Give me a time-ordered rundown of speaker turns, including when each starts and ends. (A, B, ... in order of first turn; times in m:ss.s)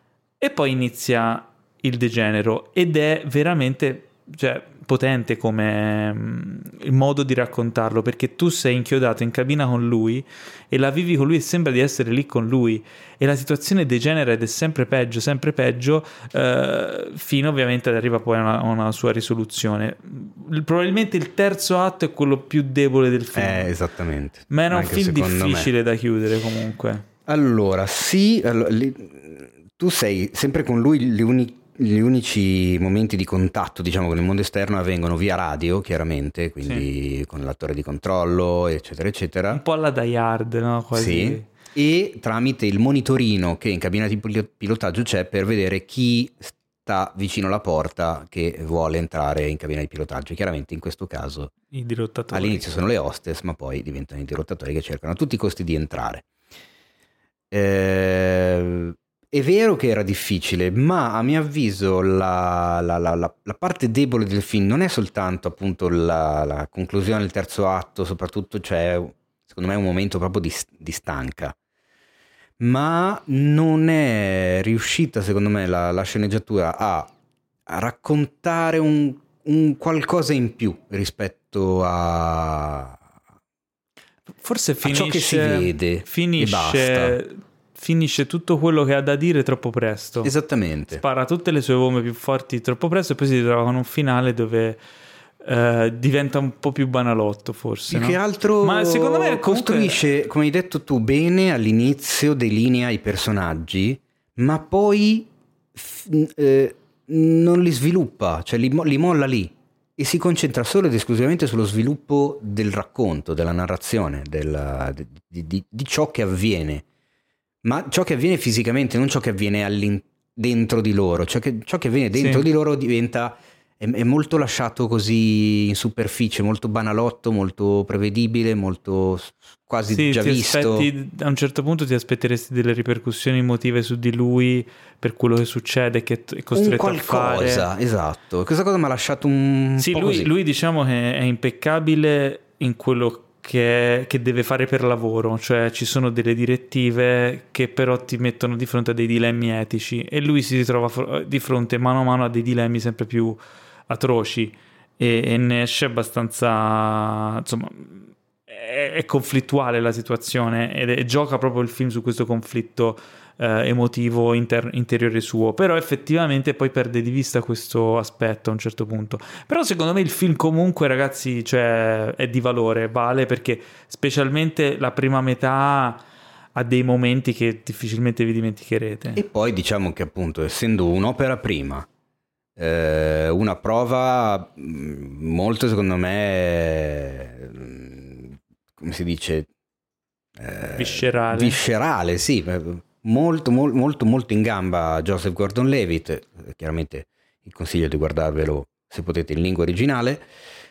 0:00.4-0:23.7 A
0:23.4-0:25.7 B
0:24.5-0:27.0 A
0:27.3-0:39.6 B
0:39.5-0:41.5 A
0:40.9-0:51.5 B
0:51.7-0:52.7 A
0:52.3-0:56.2 B
0:57.5-1:11.6 B
1:12.6-1:17.1 B
1:17.7-1:23.0 B
1:24.4-1:30.3 A
1:24.8-1:27.2 B
1:30.2-1:31.0 B
1:30.9-1:34.8 A
1:35.4-1:40.0 A
1:37.9-1:56.8 B
1:57.6-2:10.9 B
2:02.2-2:02.4 A
2:09.9-2:17.7 A
2:16.6-2:20.3 B
2:19.8-2:56.0 A
2:56.6-2:59.2 A
2:59.2-3:01.9 B
3:02.6-3:09.5 B
3:10.4-3:20.3 B
3:10.8-3:11.6 A